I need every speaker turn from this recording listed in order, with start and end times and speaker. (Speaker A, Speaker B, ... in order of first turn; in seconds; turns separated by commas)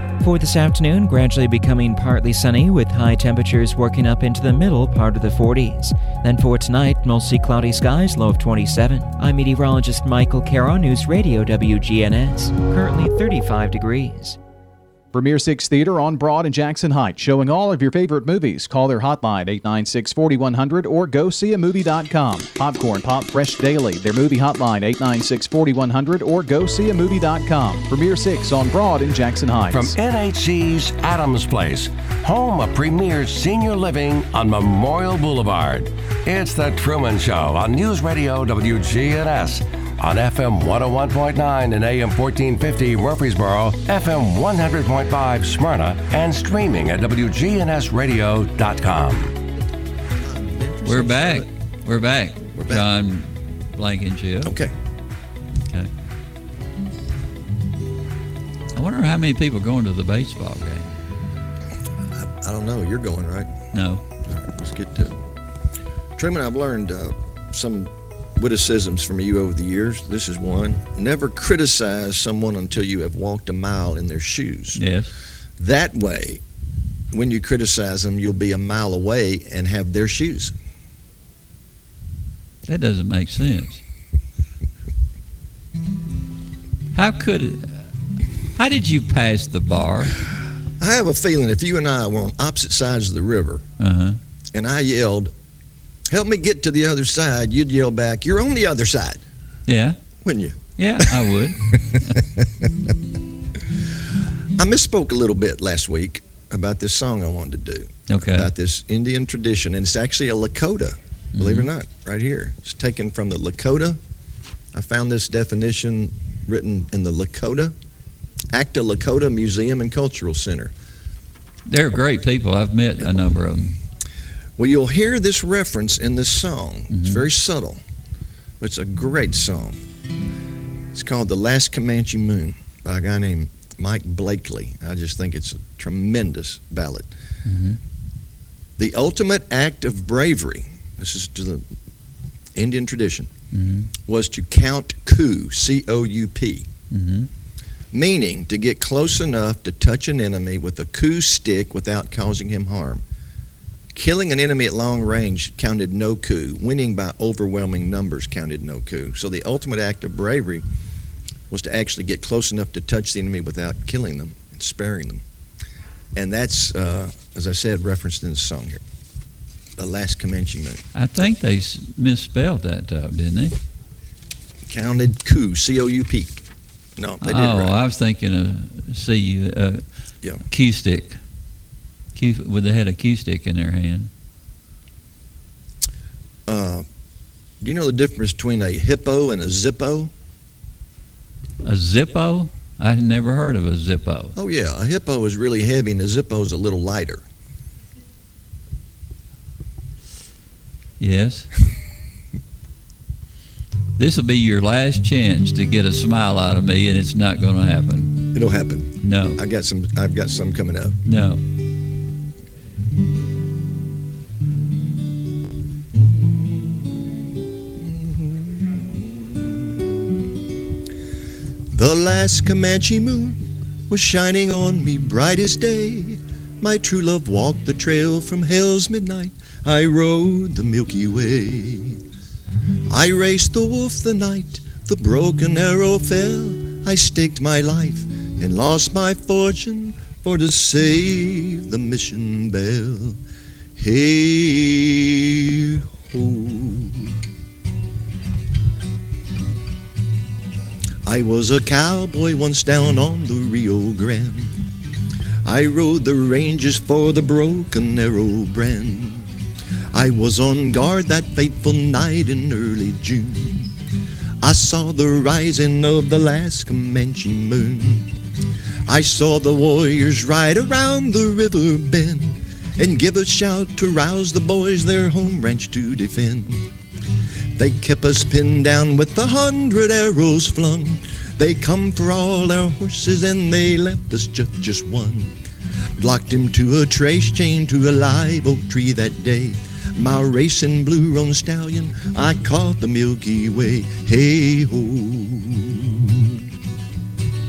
Speaker A: 0.2-14.4, Speaker B: 15.1-29.9, Speaker C: 29.7-49.4, Speaker D: 50.2-51.5, Speaker E: 50.8-54.5, Speaker D: 52.5-52.8, Speaker D: 54.4-54.7, Speaker E: 58.7-60.9, Speaker D: 62.1-63.5, Speaker E: 63.7-64.0, Speaker D: 64.2-65.2, Speaker D: 66.2-74.8, Speaker E: 74.8-75.1, Speaker D: 75.6-76.4, Speaker D: 77.1-80.5, Speaker E: 82.7-83.8, Speaker E: 86.9-87.7, Speaker E: 88.6-90.2, Speaker D: 90.8-93.6, Speaker E: 93.8-94.2, Speaker D: 94.5-95.3, Speaker D: 96.1-99.2, Speaker E: 99.7-100.0, Speaker D: 100.2-102.7, Speaker E: 100.8-102.1, Speaker D: 104.6-114.0, Speaker E: 108.1-108.5, Speaker E: 111.3-111.7, Speaker D: 114.7-117.7, Speaker D: 118.5-120.7, Speaker E: 121.7-123.8, Speaker D: 124.6-127.8, Speaker E: 126.9-127.2, Speaker D: 128.6-129.8, Speaker D: 130.9-137.1, Speaker E: 137.4-137.8, Speaker D: 138.8-141.7, Speaker D: 142.5-143.3, Speaker E: 143.5-143.9, Speaker D: 144.1-146.7, Speaker E: 146.9-147.3, Speaker D: 147.9-153.0, Speaker D: 153.9-160.6, Speaker D: 161.5-165.2, Speaker D: 166.1-168.8, Speaker D: 169.8-170.8, Speaker E: 170.9-173.5, Speaker D: 174.7-176.4, Speaker D: 177.0-177.8, Speaker E: 177.2-179.8, Speaker E: 180.5-181.2, Speaker E: 182.1-184.1, Speaker D: 186.5-186.8, Speaker D: 187.6-190.1, Speaker E: 191.6-194.3, Speaker D: 194.3-197.2, Speaker E: 201.0-201.5, Speaker E: 204.0-208.2, Speaker D: 208.3-211.0, Speaker E: 209.0-209.4, Speaker E: 211.0-211.4, Speaker D: 215.9-217.2, Speaker D: 217.8-219.7, Speaker D: 221.7-232.0, Speaker D: 232.9-243.2, Speaker D: 243.8-247.1, Speaker D: 251.0-254.5, Speaker D: 255.4-259.3, Speaker D: 259.9-263.7, Speaker D: 264.4-268.1, Speaker D: 268.9-276.6, Speaker D: 277.5-285.3, Speaker D: 286.0-296.4